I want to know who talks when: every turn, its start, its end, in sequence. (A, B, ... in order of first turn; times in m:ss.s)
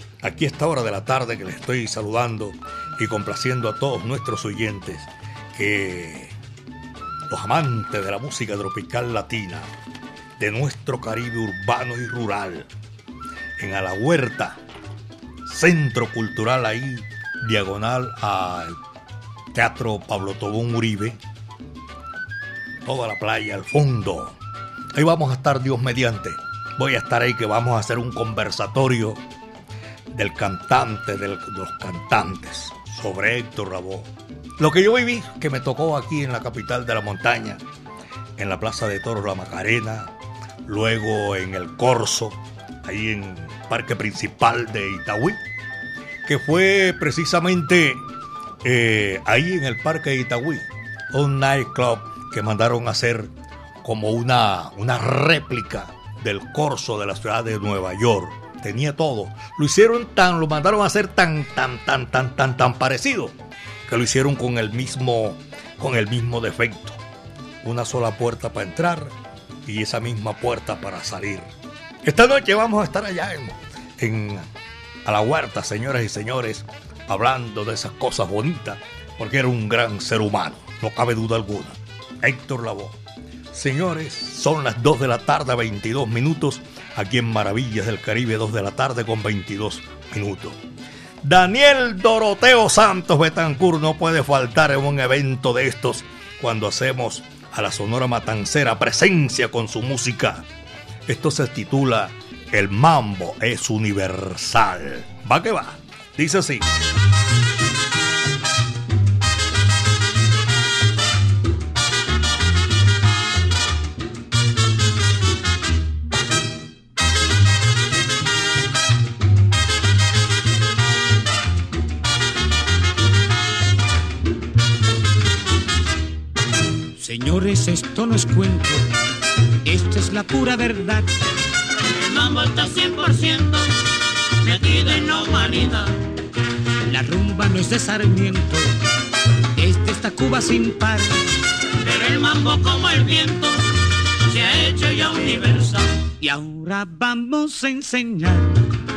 0:00.2-0:06.3 A
0:07.3-0:09.7 A
0:10.4-0:12.7 A
0:13.6-0:14.6 A
0:15.4-0:18.8 A
0:19.5-0:21.2 A
0:22.8-0:24.4 A
0:24.9-0:29.2 A
0:30.1-0:37.6 A
0:38.4-0:40.1 A
0:40.6-0:45.4 A
0:46.2-0:48.0 A
0:48.6-0:53.3 A
0:53.8-1:03.3 A
1:03.9-1:07.0 A
1:07.6-1:09.1 A
1:09.6-1:11.5 A
1:12.0-1:14.5 A
1:15.0-1:23.0 A
1:23.5-1:30.6 A
1:31.2-1:40.4 A
1:41.0-1:46.7 A
2:07.0-2:08.9 B
2:09.6-2:11.1 B
2:11.8-2:13.8 C
2:14.4-2:15.9 C
2:16.8-2:18.7 B
2:19.6-2:21.2 B
2:21.8-2:25.9 C
2:26.2-2:28.6 B